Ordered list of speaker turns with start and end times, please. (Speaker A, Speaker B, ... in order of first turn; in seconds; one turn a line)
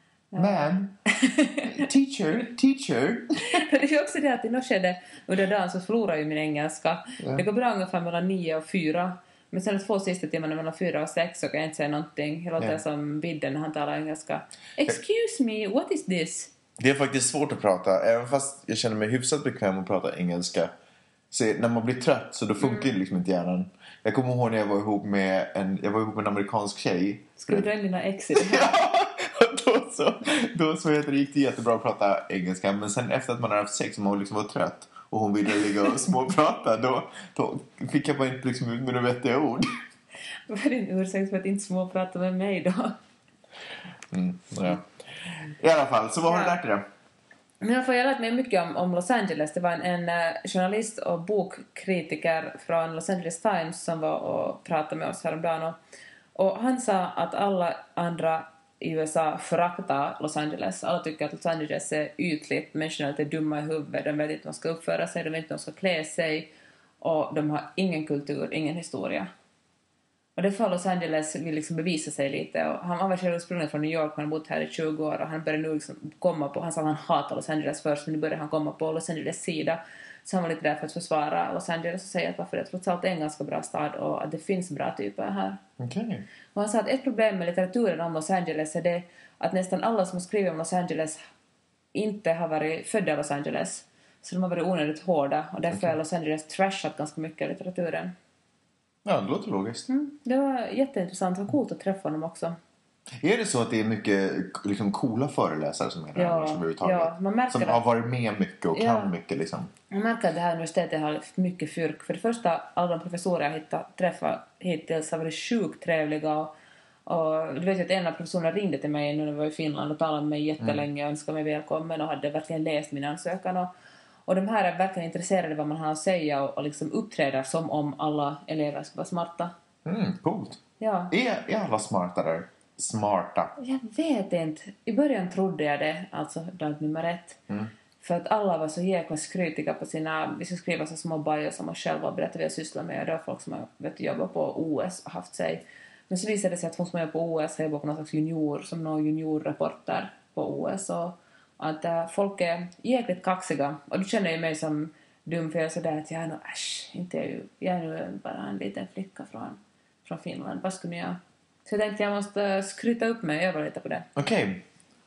Speaker A: 0.3-1.9
Speaker B: 0.4-0.9
Speaker B: 1.6-3.4
Speaker A: 3.4-16.5
Speaker B: 7.2-7.5
Speaker B: 16.8-20.7
Speaker B: 21.3-27.7
Speaker A: 22.6-23.0
Speaker A: 27.4-28.7
Speaker B: 28.4-39.7
Speaker A: 40.5-43.0
Speaker B: 44.1-46.9
Speaker A: 46.3-46.6
Speaker A: 47.6-55.8
Speaker A: 56.4-69.3
Speaker A: 70.4-85.6
Speaker B: 85.8-86.2
Speaker A: 86.5-91.2
Speaker A: 91.9-98.1
Speaker B: 99.0-99.8
Speaker A: 99.9-102.6
Speaker B: 103.2-109.7
Speaker A: 106.2-107.8
Speaker A: 108.7-109.1
Speaker A: 109.9-116.5
Speaker A: 117.1-123.7
Speaker A: 124.3-129.5
Speaker B: 129.8-130.6
Speaker A: 130.8-131.1
Speaker B: 131.1-133.5
Speaker A: 133.6-137.4
Speaker A: 138.0-164.1
Speaker B: 164.2-164.6